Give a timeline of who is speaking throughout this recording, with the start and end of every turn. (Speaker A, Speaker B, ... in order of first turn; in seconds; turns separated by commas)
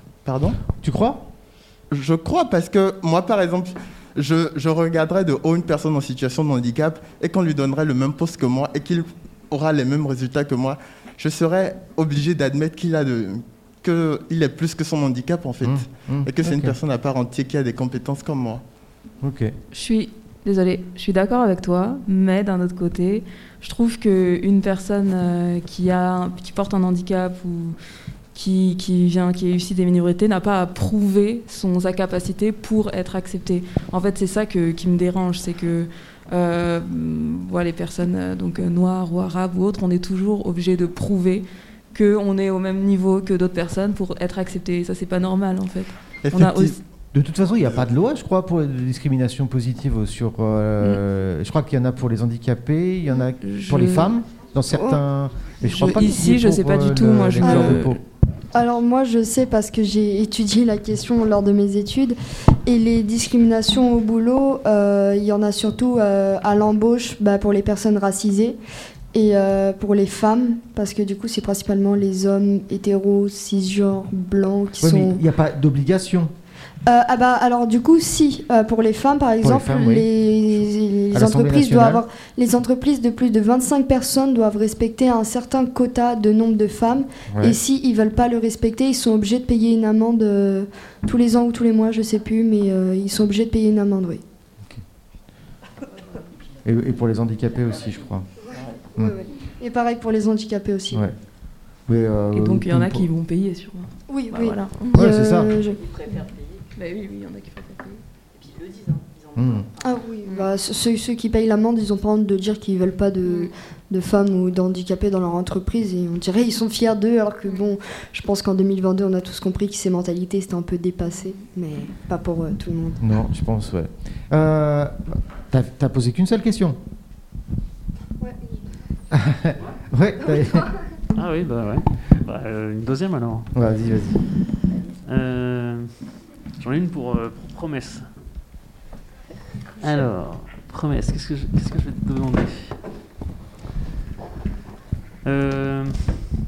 Speaker A: 0.2-0.6, Speaker B: 0.7-1.2, Speaker A: 1.9-18.6, Speaker B: 15.6-16.8, Speaker B: 19.2-19.5, Speaker C: 19.7-27.8, Speaker C: 28.3-46.8, Speaker A: 46.2-46.6, Speaker B: 47.1-58.0, Speaker C: 53.4-54.1, Speaker D: 54.7-55.0, Speaker C: 55.6-58.0, Speaker D: 57.4-57.9, Speaker D: 58.5-68.6, Speaker D: 69.1-75.2, Speaker B: 74.8-76.3, Speaker D: 76.8-94.2, Speaker B: 79.4-80.1, Speaker B: 81.1-82.0, Speaker B: 87.3-87.6, Speaker B: 96.6-98.2, Speaker D: 99.0-101.1, Speaker B: 101.9-103.0, Speaker C: 102.3-104.9, Speaker D: 104.1-105.8, Speaker B: 104.9-105.6, Speaker C: 106.8-108.0, Speaker B: 109.3-109.7, Speaker D: 109.8-123.0, Speaker B: 123.0-126.8, Speaker B: 129.1-130.7, Speaker E: 131.2-133.5, Speaker B: 133.5-134.2, Speaker E: 135.1-136.0, Speaker E: 136.6-138.0, Speaker E: 139.8-142.7, Speaker E: 145.2-146.3